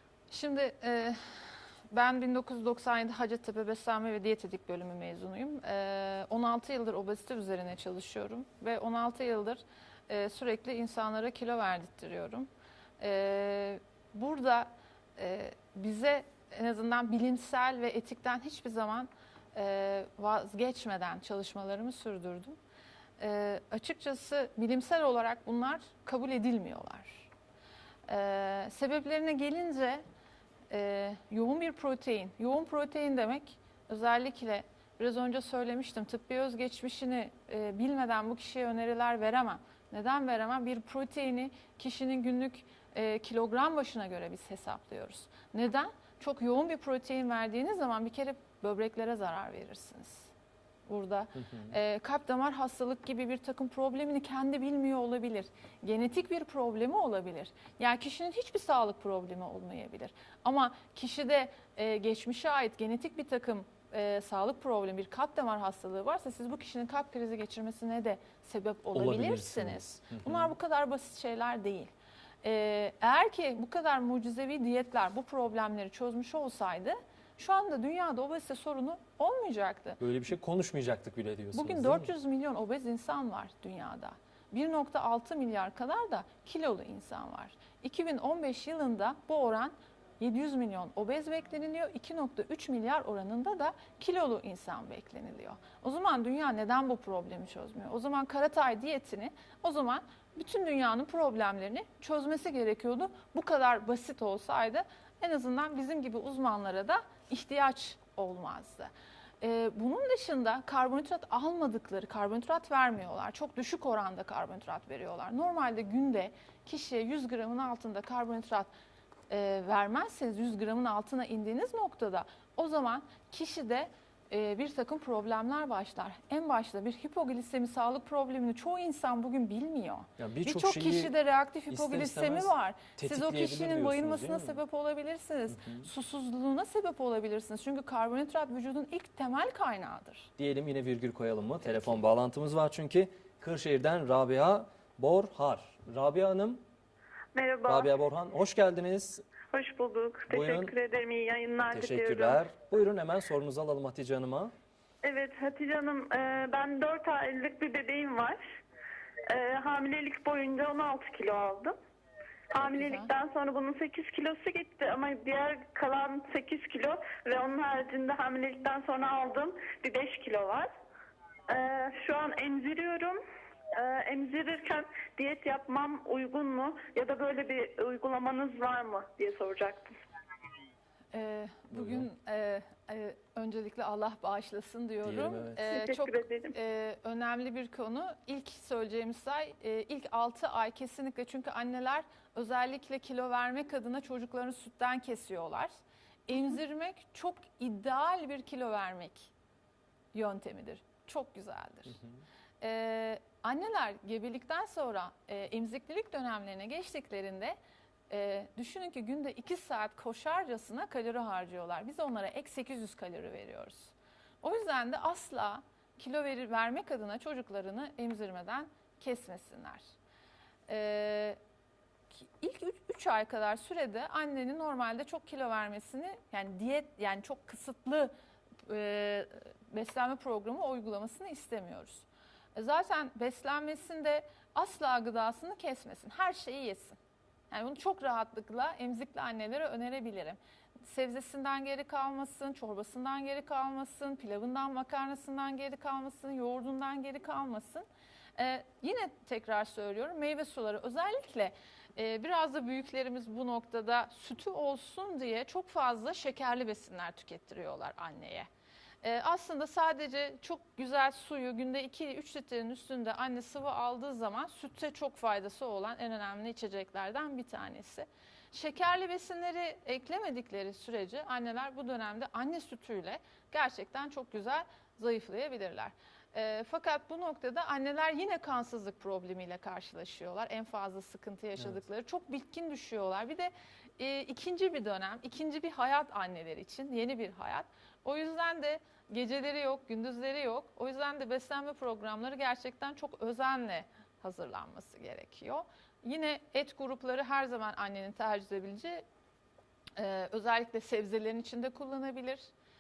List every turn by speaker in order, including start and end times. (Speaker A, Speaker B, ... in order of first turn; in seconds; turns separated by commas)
Speaker A: 0.3-1.2, Speaker A: 1.9-12.5, Speaker A: 13.0-22.6, Speaker A: 23.2-27.3, Speaker A: 28.1-30.0, Speaker A: 30.7-50.3, Speaker A: 50.9-71.9, Speaker B: 51.4-51.7, Speaker B: 68.9-70.5, Speaker A: 72.4-80.0, Speaker B: 80.0-82.1, Speaker A: 81.5-118.7, Speaker A: 119.3-140.3, Speaker B: 130.2-131.1, Speaker B: 131.7-134.6, Speaker B: 135.5-135.9, Speaker B: 140.4-146.6, Speaker C: 147.3-147.9, Speaker B: 147.7-149.2, Speaker C: 149.5-152.4, Speaker B: 150.3-150.7, Speaker B: 151.7-154.5, Speaker C: 155.0-158.4, Speaker C: 159.3-161.8, Speaker C: 162.5-170.7, Speaker A: 162.6-163.1, Speaker C: 171.5-173.2, Speaker C: 173.8-180.0, Speaker A: 181.1-195.7, Speaker B: 181.7-182.1, Speaker B: 185.0-185.6, Speaker C: 185.7-186.5, Speaker A: 196.3-199.3, Speaker A: 200.1-202.0, Speaker A: 202.6-207.6, Speaker A: 208.1-219.9, Speaker A: 220.7-221.4, Speaker A: 222.1-228.1, Speaker A: 228.7-237.0, Speaker A: 237.5-247.9, Speaker A: 248.4-258.5, Speaker A: 259.0-299.0, Speaker A: 300.0-302.5